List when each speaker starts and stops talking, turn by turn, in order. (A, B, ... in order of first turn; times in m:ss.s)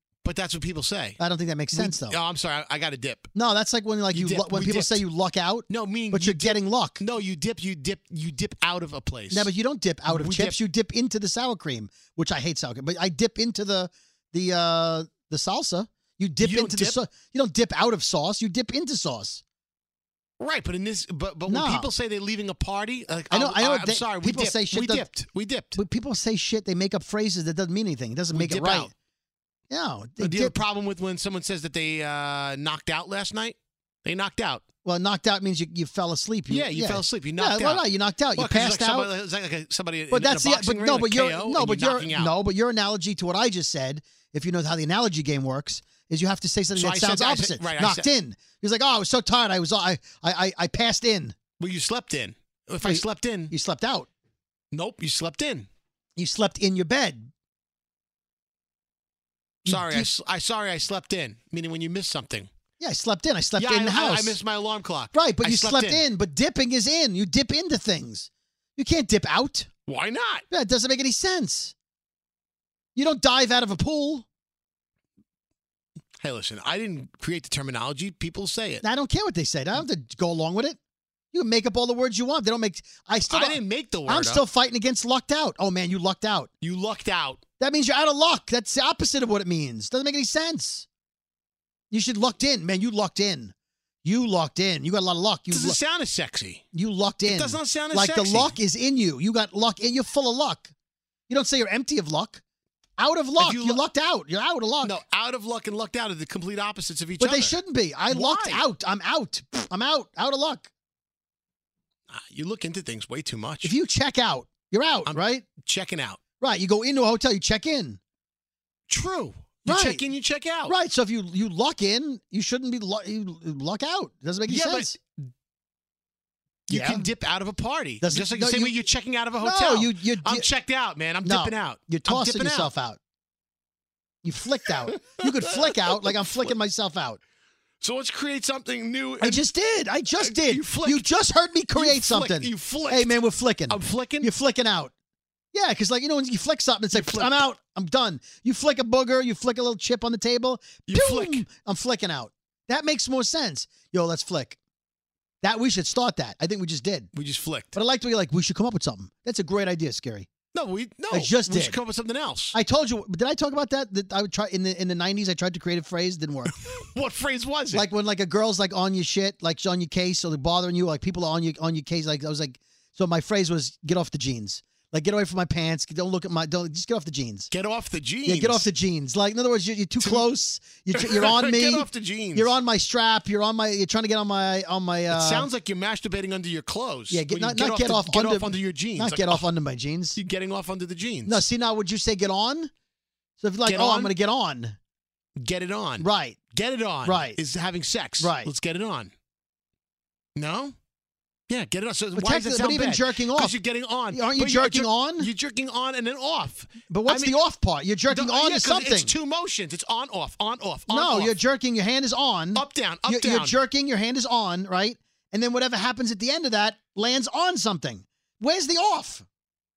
0:00.2-0:01.2 A
0:01.2-0:02.2 B
0:01.7-0:03.3 A
0:03.3-0:07.0 B
0:04.1-0:05.0 A
0:05.7-0:09.5 A
0:09.3-0:19.4 B
0:10.1-0:10.6 A
0:16.4-0:17.0 A
0:20.4-0:25.8 A
0:21.5-0:21.9 B
0:23.3-0:25.1 B
0:25.7-0:28.9 B
0:28.3-0:28.9 A
0:29.7-0:30.6 B
0:30.2-0:34.6 A
0:34.8-0:39.1 B
0:36.5-0:37.8 A
0:38.4-0:42.3 A
0:40.1-0:51.4 B
0:46.8-0:48.1 A
0:51.6-0:53.5 A
0:52.8-0:54.1 B
0:54.7-0:55.7 A
0:56.2-0:57.3 B
0:59.6-1:02.5 A
0:59.6-1:00.1 B
1:02.8-1:04.4 B
1:03.6-1:06.0 A
1:05.1-1:09.7 B
1:09.8-1:10.4 A
1:10.5-1:11.7 B
1:13.0-1:14.2 B
1:16.2-1:18.8 A
1:18.8-1:20.8 B
1:21.3-1:26.5 B
1:23.3-1:24.4 A
1:26.6-1:27.4 A
1:27.6-1:30.8 B
1:31.9-1:35.8 B
1:35.5-1:36.6 A
1:36.7-1:40.7 B
1:37.2-1:38.5 A
1:41.3-1:42.4 B
1:43.0-1:45.0 B
1:43.4-1:43.8 A
1:44.8-1:47.6 A
1:47.2-1:50.7 B
1:48.1-1:48.6 A
1:52.1-1:53.7 A
1:53.6-1:55.4 B
1:55.0-1:56.2 A
1:56.4-1:58.0 B
1:58.9-2:00.7 A
1:59.6-2:00.0 B
2:00.6-2:04.9 B
2:04.5-2:05.0 A
2:06.7-2:12.7 A
2:06.7-2:07.1 B
2:08.0-2:08.7 B
2:09.4-2:10.5 B
2:11.2-2:13.0 B
2:14.2-2:17.2 B
2:14.9-2:15.2 A
2:17.8-2:19.4 A
2:19.2-2:24.9 B
2:20.2-2:21.1 A
2:21.7-2:24.3 A
2:25.5-2:34.6 B
2:26.9-2:27.4 A
2:30.9-2:31.4 A
2:35.4-2:37.1 B
2:37.1-2:37.7 A
2:37.7-2:40.3 B
2:40.5-2:42.6 A
2:41.1-2:41.8 B
2:42.5-2:46.5 B
2:46.7-2:47.9 A
2:47.7-2:57.5 B
2:57.5-2:58.6 A
2:58.2-3:05.5 B
3:00.0-3:00.3 A
3:00.9-3:02.5 A
3:05.1-3:09.5 A
3:07.1-3:10.2 B
3:10.1-3:11.4 A
3:11.2-3:12.7 B
3:13.4-3:14.8 B
3:13.6-3:14.1 A
3:15.4-3:19.1 A
3:16.0-3:16.4 B
3:17.0-3:17.4 B
3:18.2-3:18.5 B
3:20.4-3:20.7 A
3:21.5-3:27.4 A
3:22.1-3:23.6 B
3:24.1-3:25.3 B
3:26.9-3:29.1 B
3:28.1-3:31.3 A
3:30.9-3:39.2 B
3:32.5-3:33.5 A